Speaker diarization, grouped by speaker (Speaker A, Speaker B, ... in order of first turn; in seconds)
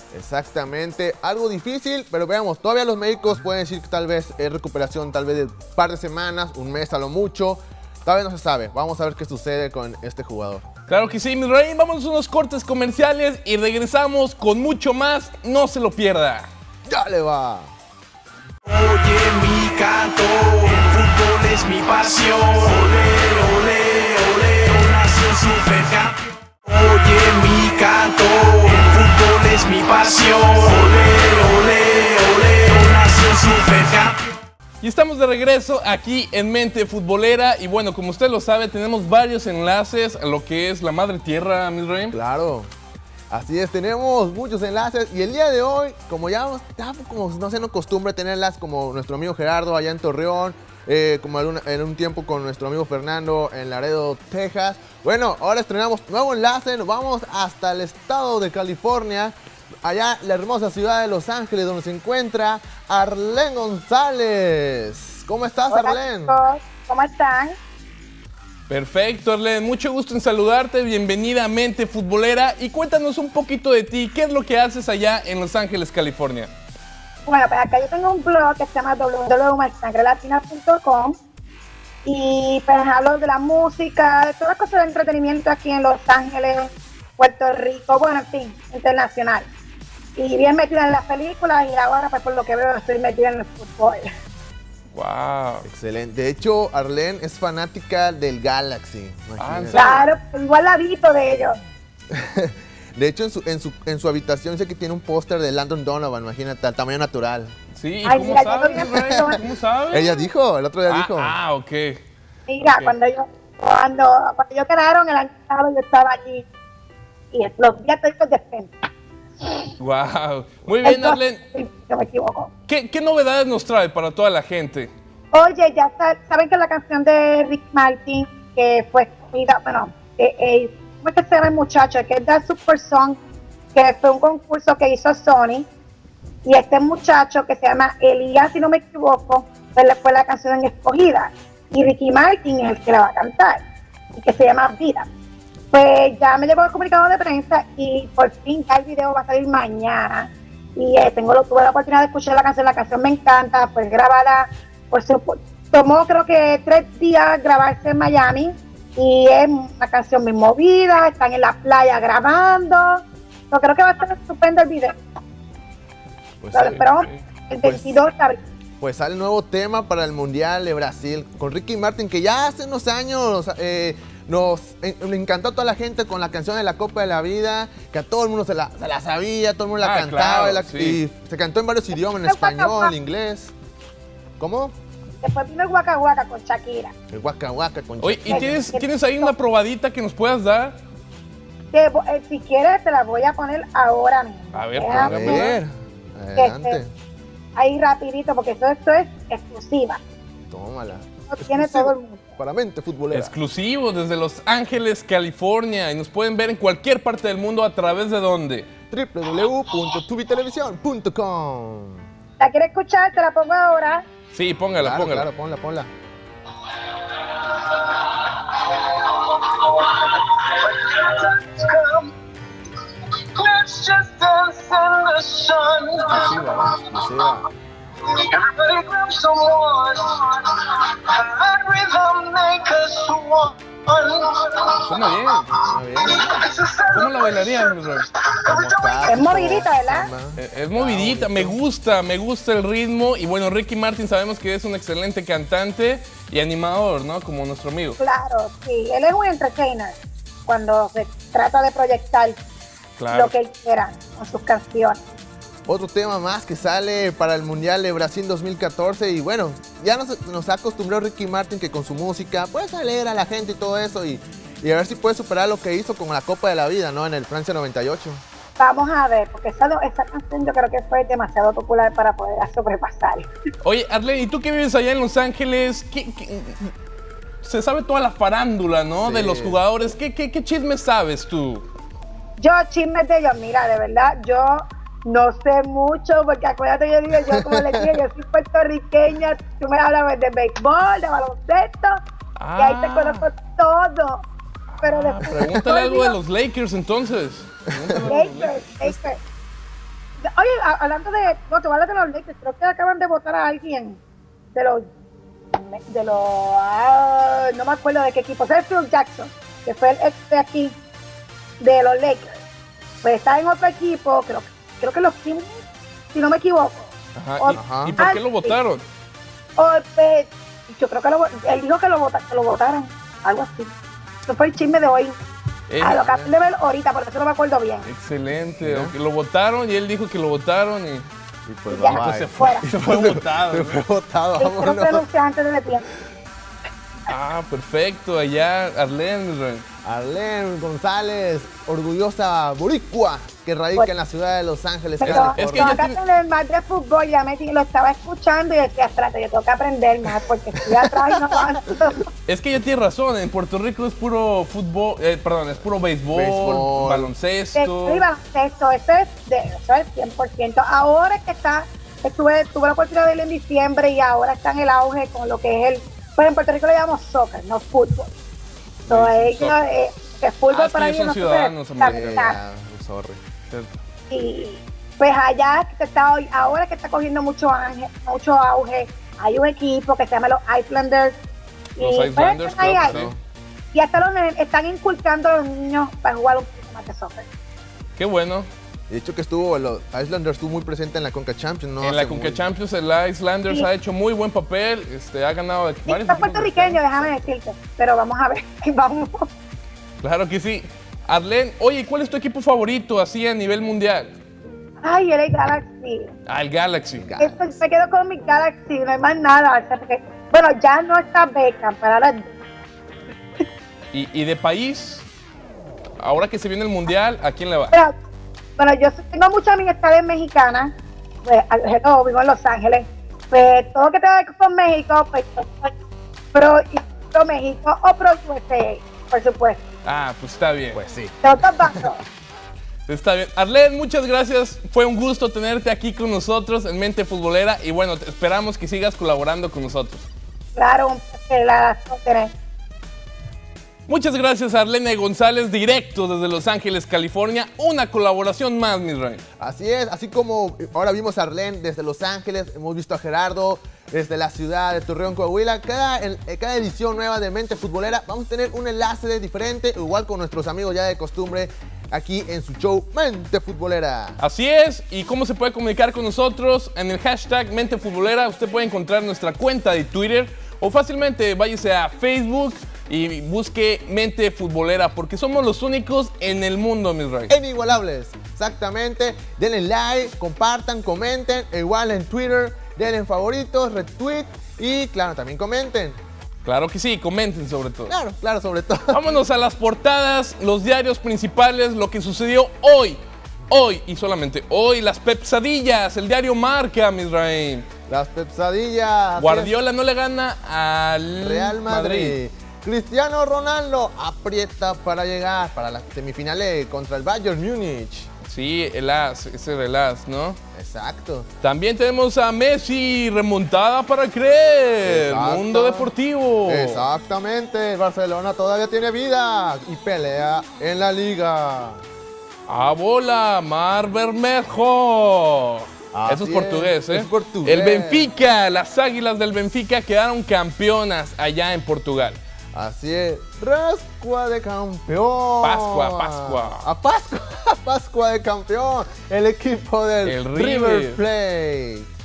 Speaker A: 0.1-10.7, 16.9-17.7, 42.1-42.7, 43.3-66.4, 95.6-100.1, 102.1-107.5, 108.7-109.3, 109.9-111.3, 166.4-166.8, 167.6-168.0, 168.8-183.5, 184.4-184.7, 187.1-188.6, 194.9-196.9, 200.5-203.3, 208.9-212.1, 214.8-215.9, 226.7-227.4, 235.5-236.4, 238.5-241.6, 255.7-268.2, 279.0-279.6, 287.3-288.0, 295.3-295.6, 297.7-298.1, 317.5-318.0, 325.9-326.3, 328.6-328.9, 331.5-335.1, 339.8-345.9, 350.7-351.9, 356.1-357.1, 371.8-373.2, 382.8-383.2, 388.9-392.4, 407.0-407.6, 430.7-431.9, 449.4-464.2, 477.3-486.0, 487.9-489.0, 497.9-499.5, 501.2-508.1, 510.5-511.3, 514.8-515.9, 516.5-521.8, 525.9-528.1, 532.5-541.9
Speaker B: 10.9-16.5, 34.8-42.1, 68.7-76.5, 94.9-95.7, 99.4-100.0, 107.7-110.2, 110.9-112.0, 112.6-113.0, 119.8-121.4, 122.7-124.9, 166.6-167.2, 179.8-181.0, 188.0-190.8, 194.5-195.6, 203.1-208.7, 214.3-215.3, 226.1-226.8, 234.8-235.5, 236.9-238.1, 240.3-248.0, 253.0-253.3, 273.6-276.7, 277.4-281.6, 292.4-293.3, 294.7-299.1, 317.1-318.8, 325.7-326.1, 327.8-331.1, 331.9-333.8, 337.1-339.6, 345.0-346.0, 352.3-358.1, 368.9-369.6, 370.5-372.3, 373.5-373.8, 381.8-383.1, 388.0-388.5, 391.8-396.8, 400.0-404.1, 406.3-407.1, 413.9-415.0, 416.0-417.8, 429.8-430.8, 432.9-440.1, 443.9-449.2, 464.2-477.3, 486.4-487.9, 488.9-497.7, 499.2-502.2, 508.2-510.4, 511.4-516.8, 522.5-532.2, 535.4-536.6, 540.0-541.0
Speaker C: 18.6-34.4
Speaker D: 65.7-67.6, 77.2-81.2, 82.0-89.5, 90.2-94.1, 99.7-101.6, 108.0-109.4, 112.5-116.5, 117.3-118.7, 120.8-122.5, 125.3-133.2, 133.7-135.7, 136.4-143.6, 144.1-145.1, 145.7-164.9, 166.5-168.4, 182.1-182.9, 185.2-186.9, 188.3-189.3, 191.7-195.5, 196.4-196.8, 197.6-200.0, 201.3-202.2, 212.4-214.0, 239.1-240.1, 248.0-252.4, 253.1-255.0, 268.6-273.2, 282.4-292.0, 292.6-294.2, 294.8-296.1, 298.0-299.2, 300.2-304.0, 304.5-304.9, 305.5-310.8, 311.6-312.4, 313.0-315.6, 316.1-318.6, 319.6-323.7, 324.2-325.2, 325.8-327.9, 331.7-332.6, 334.4-335.9, 345.0-352.1, 357.6-368.1, 368.9-372.4, 374.1-381.2, 381.8-383.0, 383.7-387.3, 395.9-399.3, 404.8-406.1, 407.2-412.3, 418.6-420.7, 421.2-425.7, 426.3-429.6, 431.2-432.0, 440.6-442.3
Speaker E: 217.1-222.1, 222.8-227.4, 228.0-235.2, 235.7-239.4